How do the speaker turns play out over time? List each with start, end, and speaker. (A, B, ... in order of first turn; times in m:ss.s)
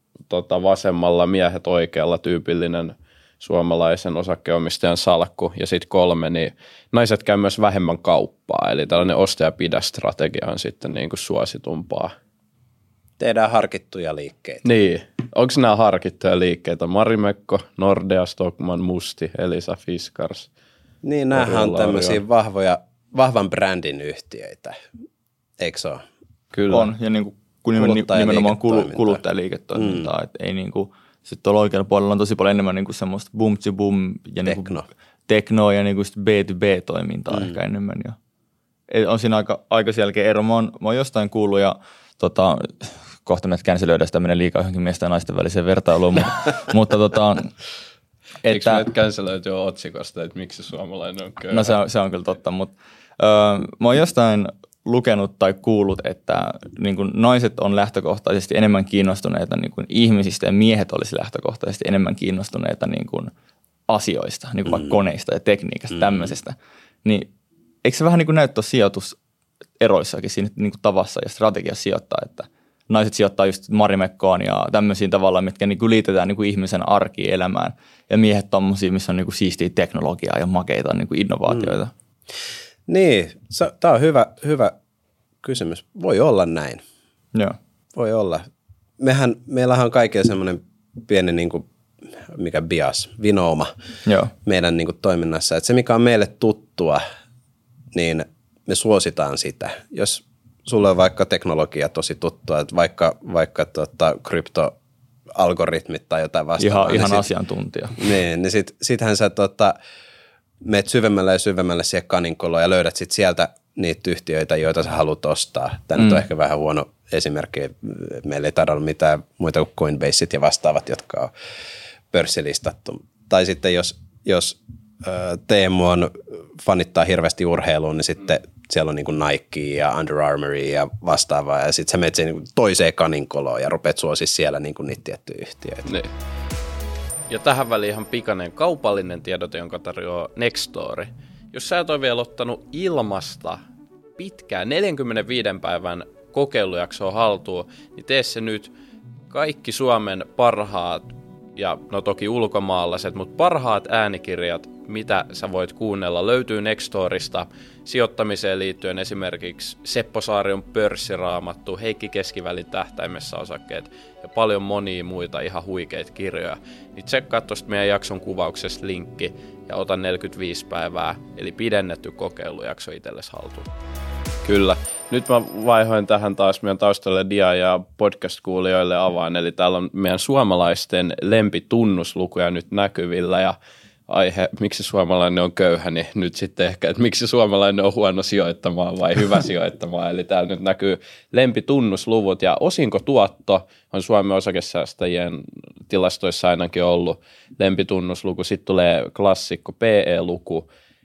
0:00.3-0:12.1 A
0:13.2-0:14.6 B
0:14.6-0:20.5 A
0:21.0-0:24.8 B
0:21.3-0:22.2 A
0:25.6-0:26.0 B
0:26.5-0:26.9 A
0:26.7-0:34.7 C
0:27.8-0:29.2 B
0:29.8-0:30.1 B
0:34.4-0:34.8 B
0:35.3-0:38.2 C
0:38.9-0:47.5 C
0:48.4-0:48.9 C
0:48.5-0:51.8 A
0:51.5-1:03.3 C
1:03.9-1:07.3 C
1:04.7-1:05.0 B
1:06.0-1:06.3 B
1:07.8-1:09.2 C
1:09.8-1:21.9 C
1:21.5-1:21.7 B
1:22.9-1:24.7 B
1:25.4-1:26.8 B
1:27.9-1:28.4 B
1:29.0-1:31.6 B
1:32.2-1:33.7 B
1:34.1-1:34.3 C
1:34.4-1:37.0 B
1:37.9-1:44.7 B
1:45.4-1:47.3 B
1:46.6-1:48.0 C
1:48.0-1:49.8 B
1:50.6-2:01.3 B
2:02.1-2:15.9 B
2:15.9-2:16.1 A
2:17.3-2:23.6 A
2:24.2-2:28.7 A
2:29.3-2:53.7 A
2:54.4-3:03.6 A
3:04.1-3:20.7 A